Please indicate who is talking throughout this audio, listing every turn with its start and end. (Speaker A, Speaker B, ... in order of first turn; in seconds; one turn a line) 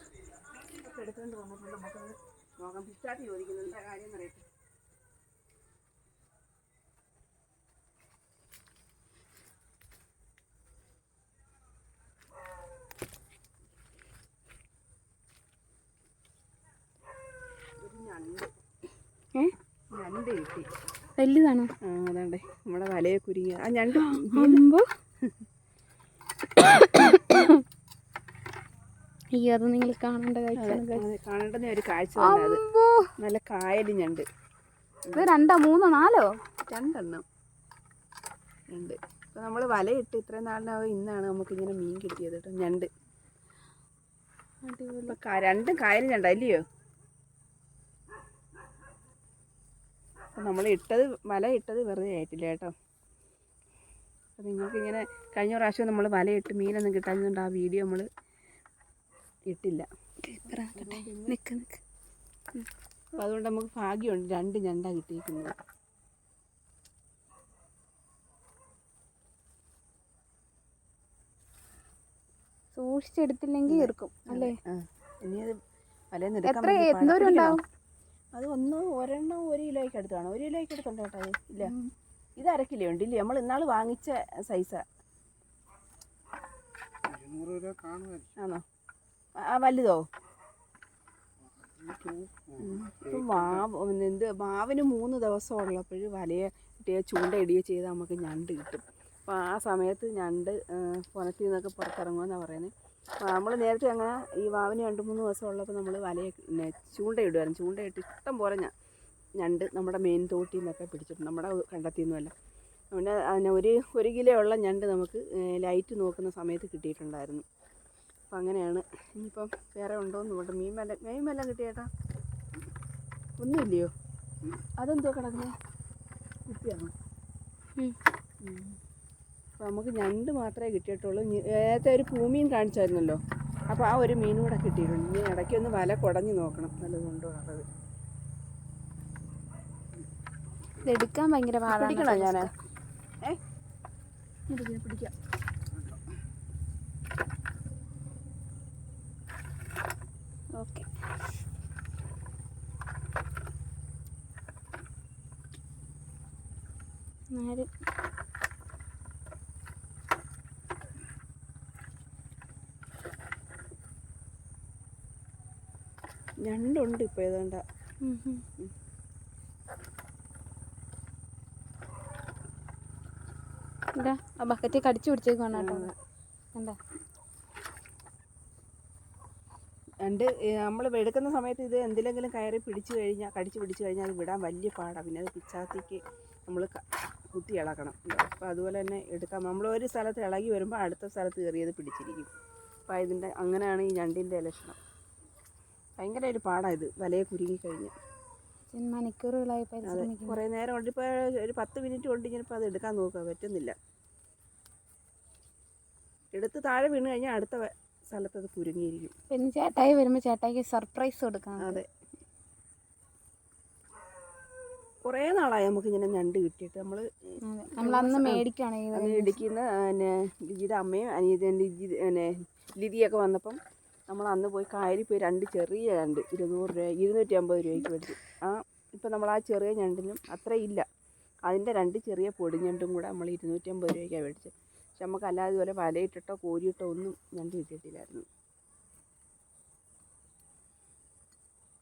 Speaker A: 0.7-4.5
Speaker A: 17.8-18.5
Speaker A: 19.9-20.7
Speaker B: 21.2-21.7
Speaker A: 21.8-24.6
Speaker B: 24.1-24.9
Speaker B: 26.7-27.6
Speaker B: 29.3-31.1
Speaker A: 30.6-32.6
Speaker B: 32.2-33.1
Speaker A: 33.2-34.3
Speaker B: 35.1-36.4
Speaker A: 36.6-37.2
Speaker A: 38.7-42.9
Speaker B: 44.6-45.2
Speaker A: 45.1-46.6
Speaker A: 50.4-52.7
Speaker A: 54.4-58.1
Speaker A: 59.5-59.9
Speaker B: 60.2-61.8
Speaker A: 60.7-61.4
Speaker A: 63.2-65.5
Speaker B: 72.8-74.6
Speaker A: 73.7-75.6
Speaker A: 76.1-77.6
Speaker B: 76.5-77.6
Speaker A: 78.3-81.8
Speaker A: 82.4-84.8
Speaker C: 87.1-88.3
Speaker A: 88.4-88.6
Speaker A: 89.4-90.0
Speaker C: 91.4-93.6
Speaker A: 92.6-108.7
Speaker A: 109.4-112.3
Speaker A: 112.9-117.4
Speaker A: 118.3-121.9
Speaker A: 123.4-123.9
Speaker A: 124.8-125.5
Speaker A: 126.5-126.9
Speaker A: 128.4-128.8
Speaker A: 129.6-137.7
Speaker B: 140.8-142.5
Speaker A: 141.7-142.5
Speaker A: 144.5-145.1
Speaker C: 145.7-146.0
Speaker B: 150.6-150.9
Speaker B: 157.3-157.7
Speaker A: 166.4-167.6
Speaker B: 168.0-168.4
Speaker B: 174.0-175.9
Speaker A: 175.6-175.9
Speaker A: 180.0-192.3
Speaker A: 192.9-194.8
Speaker A: 196.0-197.9
Speaker B: 198.7-200.4
Speaker A: 199.8-203.8
Speaker A: 206.3-209.1
Speaker B: 209.3-211.8
Speaker A: 211.6-211.9
Speaker A: 215.1-230.9
Speaker B: 217.4-219.4
Speaker A: 231.5-238.3